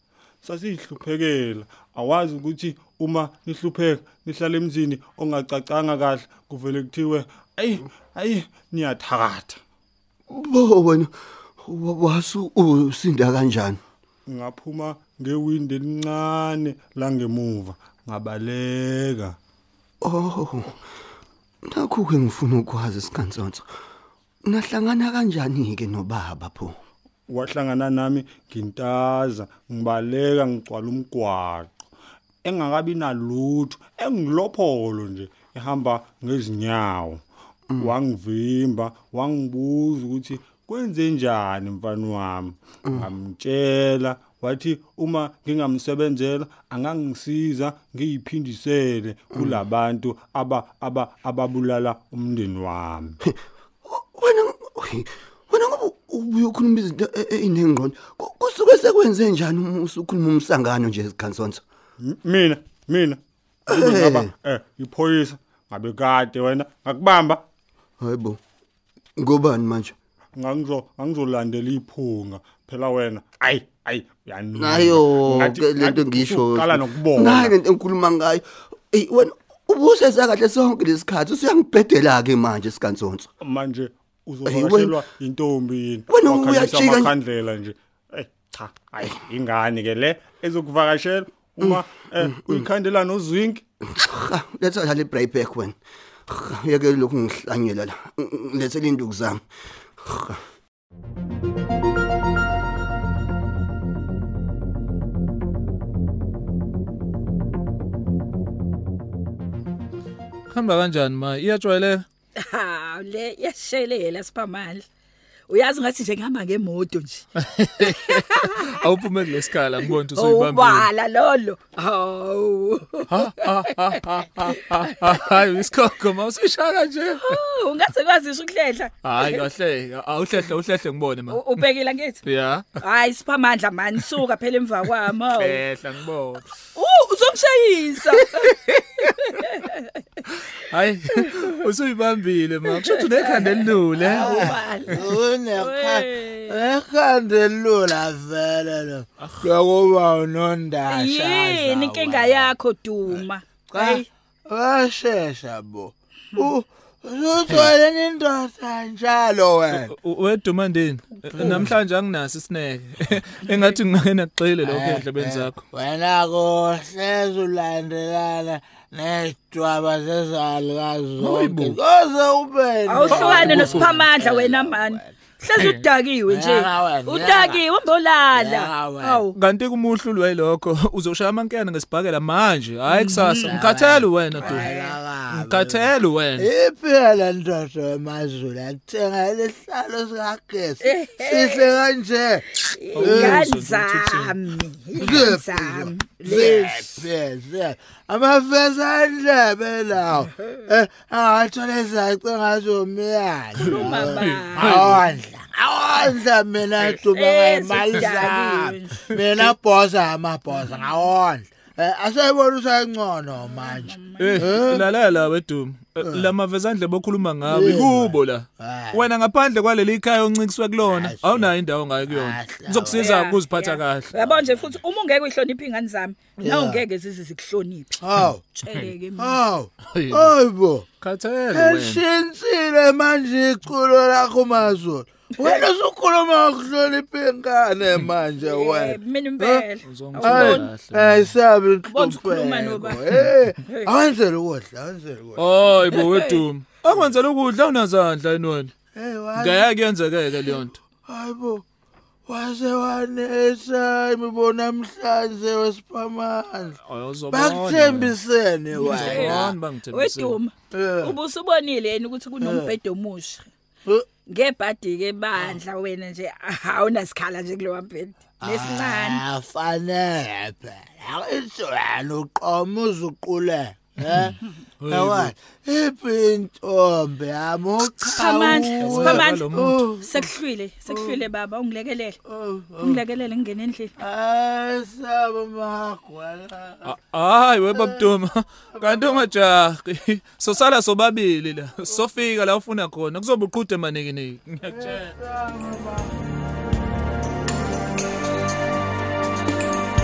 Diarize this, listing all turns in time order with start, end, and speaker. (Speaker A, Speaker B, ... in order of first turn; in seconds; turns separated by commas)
Speaker A: 0.4-9.6, Speaker B: 10.3-13.8, Speaker A: 14.3-19.4, Speaker B: 20.0-20.8, Speaker B: 21.7-23.6, Speaker B: 24.4-26.8, Speaker A: 27.3-31.7, Speaker A: 32.4-37.2, Speaker A: 37.8-53.1, Speaker B: 49.3-49.6, Speaker B: 53.9-61.6, Speaker A: 62.0-63.2, Speaker B: 63.7-64.3, Speaker A: 63.7-67.4, Speaker B: 68.0-68.4, Speaker B: 69.2-69.9, Speaker A: 70.4-77.5, Speaker B: 74.5-83.3, Speaker A: 83.4-93.6, Speaker B: 84.4-85.0, Speaker B: 86.1-87.1, Speaker B: 91.6-92.7, Speaker B: 94.0-99.4, Speaker B: 100.0-100.4, Speaker C: 110.5-112.0, Speaker D: 112.4-114.8, Speaker D: 115.5-117.2, Speaker C: 117.5-120.9, Speaker D: 118.0-118.7, Speaker D: 120.1-123.7, Speaker C: 123.1-127.4, Speaker D: 127.2-129.4, Speaker C: 129.0-131.6, Speaker D: 131.3-132.2, Speaker C: 132.2-132.8, Speaker D: 132.8-135.6, Speaker C: 135.3-136.5, Speaker D: 136.8-138.8, Speaker D: 139.3-139.9, Speaker C: 140.3-145.0, Speaker D: 142.8-146.6, Speaker E: 144.0-152.5, Speaker D: 150.9-154.1, Speaker E: 153.2-159.9, Speaker C: 159.7-165.6, Speaker E: 161.3-161.7, Speaker E: 164.6-175.1, Speaker C: 171.2-171.8, Speaker D: 172.8-179.3, Speaker C: 173.1-174.1, Speaker C: 175.6-175.8, Speaker E: 176.3-177.6, Speaker E: 178.3-179.3, Speaker C: 179.3-184.7, Speaker D: 182.9-183.5, Speaker E: 183.2-193.5, Speaker D: 184.3-185.0, Speaker C: 185.3-186.5, Speaker D: 190.8-191.8, Speaker D: 192.8-196.9, Speaker C: 192.9-194.3, Speaker E: 195.0-214.8, Speaker D: 203.6-205.1, Speaker C: 203.6-205.0, Speaker D: 207.1-209.1, Speaker C: 207.9-208.2, Speaker D: 213.4-214.5, Speaker C: 214.2-224.8, Speaker E: 216.0-216.2, Speaker E: 217.4-219.0, Speaker E: 220.8-221.5, Speaker E: 222.1-223.0, Speaker D: 222.9-229.4, Speaker E: 226.4-226.8, Speaker E: 228.0-228.4, Speaker C: 228.7-228.9, Speaker E: 229.2-230.8, Speaker C: 229.9-230.3, Speaker C: 231.0-232.0, Speaker E: 231.5-239.6, Speaker D: 235.4-235.7, Speaker D: 238.4-240.7, Speaker C: 239.8-241.3, Speaker E: 240.2-245.4, Speaker D: 241.9-243.0, Speaker C: 245.4-248.7, Speaker D: 245.9-246.4, Speaker E: 248.9-249.7, Speaker C: 249.3-250.8, Speaker E: 251.1-251.6, Speaker E: 252.2-256.8, Speaker C: 256.8-258.1, Speaker E: 257.3-259.6, Speaker C: 258.7-260.4, Speaker D: 258.8-263.4, Speaker E: 260.7-261.1, Speaker E: 262.4-262.7, Speaker D: 264.2-269.2, Speaker E: 268.4-280.3, Speaker C: 274.8-275.3, Speaker D: 278.1-282.2, Speaker C: 278.5-279.8, Speaker E: 280.9-281.2, Speaker E: 282.3-283.0, Speaker D: 282.8-283.9, Speaker E: 284.0-286.9, Speaker C: 286.8-295.0, Speaker E: 288.8-289.2, Speaker E: 294.7-296.1